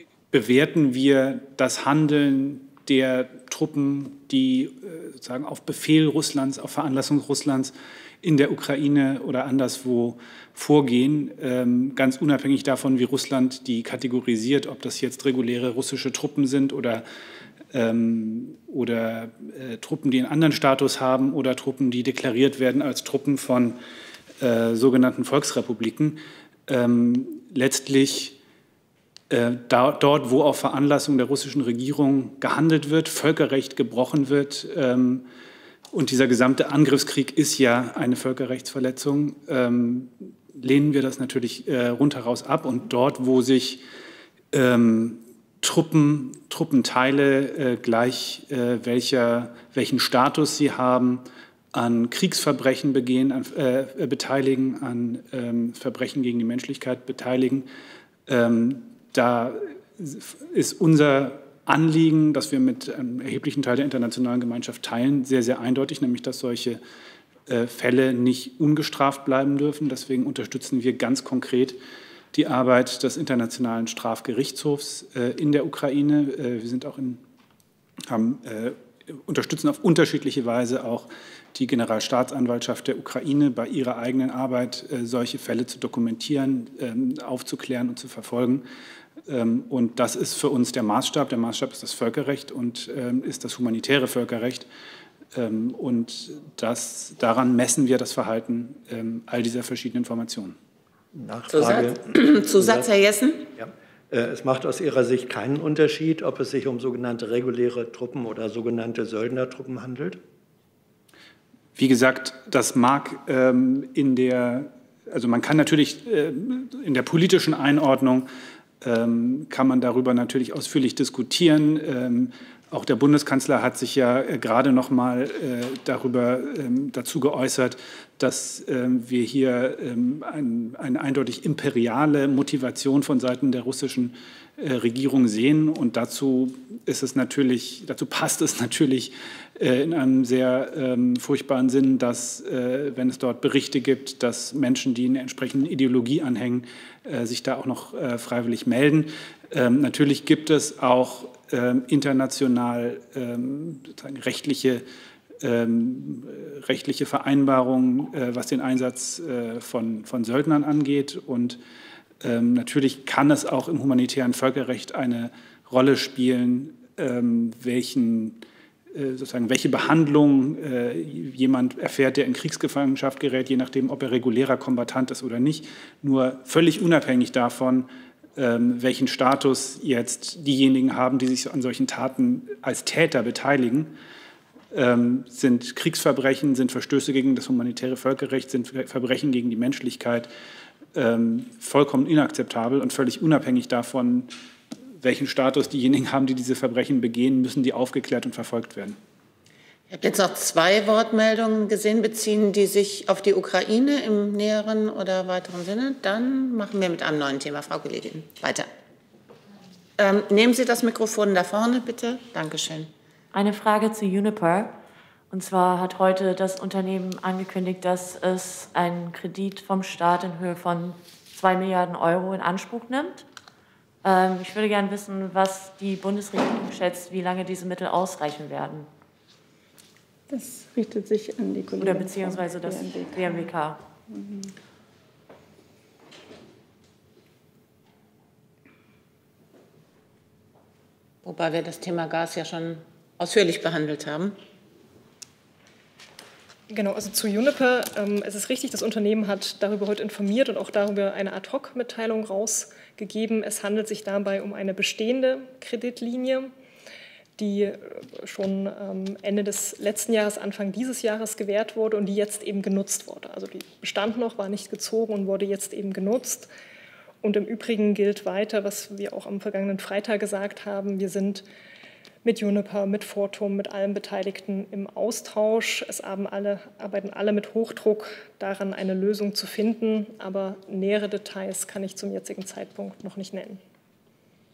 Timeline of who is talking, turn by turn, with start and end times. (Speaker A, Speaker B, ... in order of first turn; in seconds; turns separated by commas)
Speaker A: 0.3-17.0, Speaker A: 17.7-23.8, Speaker A: 24.4-28.4, Speaker A: 29.3-35.2, Speaker A: 35.9-43.8, Speaker A: 44.5-57.7, Speaker A: 58.3-66.8, Speaker A: 67.5-71.8, Speaker A: 72.3-77.2, Speaker A: 78.1-88.6, Speaker A: 89.3-94.7, Speaker A: 95.3-100.6, Speaker B: 101.1-102.9, Speaker C: 101.5-103.5, Speaker B: 103.5-110.2, Speaker A: 111.8-118.3, Speaker A: 118.8-154.8, Speaker A: 155.4-161.6, Speaker A: 162.2-168.4, Speaker A: 168.9-183.9, Speaker A: 184.7-190.3, Speaker A: 190.9-194.3, Speaker A: 195.0-199.0, Speaker C: 199.9-208.7, Speaker C: 210.0-212.9, Speaker D: 213.3-214.7, Speaker D: 215.3-223.2, Speaker D: 224.0-228.9, Speaker E: 230.3-233.5, Speaker D: 231.8-233.8, Speaker E: 234.1-234.5, Speaker C: 241.2-244.4, Speaker F: 246.7-256.5, Speaker F: 257.4-266.5, Speaker F: 267.2-271.4, Speaker F: 272.2-283.6